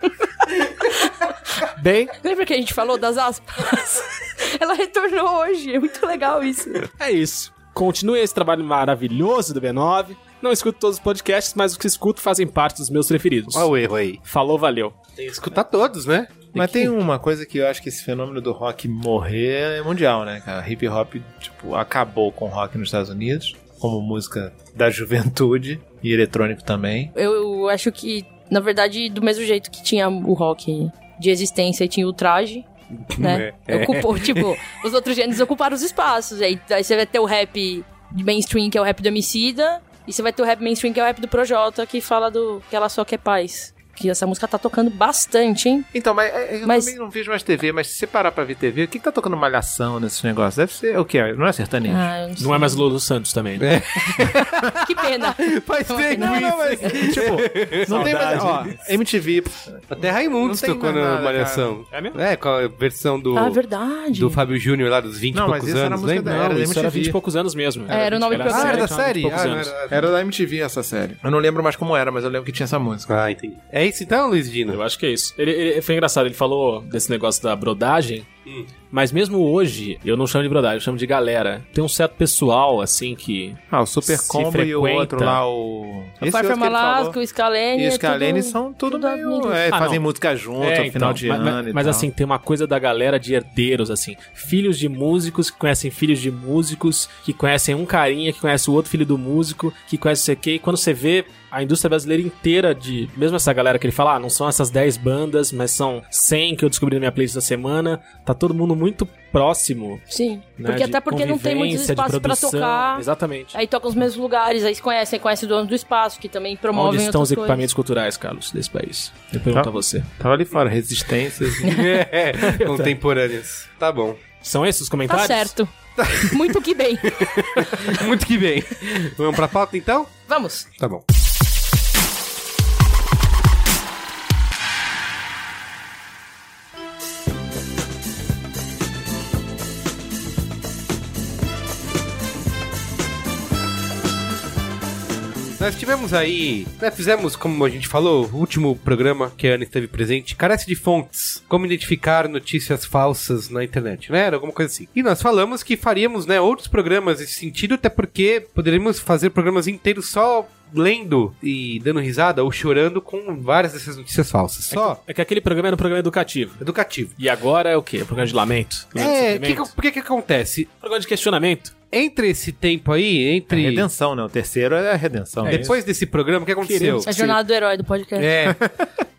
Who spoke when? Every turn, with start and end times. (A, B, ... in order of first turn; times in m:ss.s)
0:00.8-0:01.1 A
0:01.8-0:02.1 B
0:02.2-0:06.9 A
0:07.0-0:13.7 B
0:13.5-0:14.2 C
0:14.2-0:15.0 B
0:15.2-0:16.5 C
0:16.5-0:27.1 D
0:16.6-0:16.9 B
0:27.2-0:45.9 A
0:33.0-0:34.7 C
0:45.9-0:52.1 D
0:46.6-0:46.9 A
0:51.9-0:52.8 A
0:52.4-0:53.7 B
0:53.6-0:58.7 C
0:54.1-0:56.9 A
0:56.2-0:58.9 B
0:56.2-1:01.8 D
0:59.9-1:03.6 C
1:01.9-1:02.2 B
1:03.3-1:04.4 A
1:04.1-1:06.5 C
1:05.3-1:07.2 D
1:06.2-1:09.7 B
1:07.9-1:08.9 A
1:08.5-1:10.1 C
1:09.9-1:13.1 D
1:13.1-1:14.8 C
1:14.7-1:18.3 B
1:18.5-1:18.7 C
1:18.9-1:25.4 B
1:23.7-1:27.2 D
1:26.2-1:29.6 A
1:27.8-1:32.1 D
1:29.7-1:30.0 B
1:30.6-1:50.0 B
1:50.1-1:57.7 A
1:50.6-1:53.6 B
1:56.7-2:00.1 B
1:59.5-2:01.8 D
2:01.6-2:04.2 C
2:02.4-2:03.0 B
2:04.4-2:05.5 B
2:05.1-2:05.7 A
2:06.0-2:06.6 C
2:06.3-2:08.0 A
2:07.2-2:10.2 C
2:10.3-2:10.7 A
2:25.6-2:45.0 C
2:44.7-2:46.6 B
2:46.6-2:47.1 C
2:47.2-2:49.7 B
2:49.0-2:50.7 C
2:50.8-2:51.7 B
2:51.9-2:53.9 C
2:53.5-2:55.8 D
2:55.4-2:55.8 B
2:55.4-2:57.1 C
2:56.6-2:57.4 B
2:57.0-2:58.3 A
2:58.2-2:58.8 C
2:58.4-2:58.8 D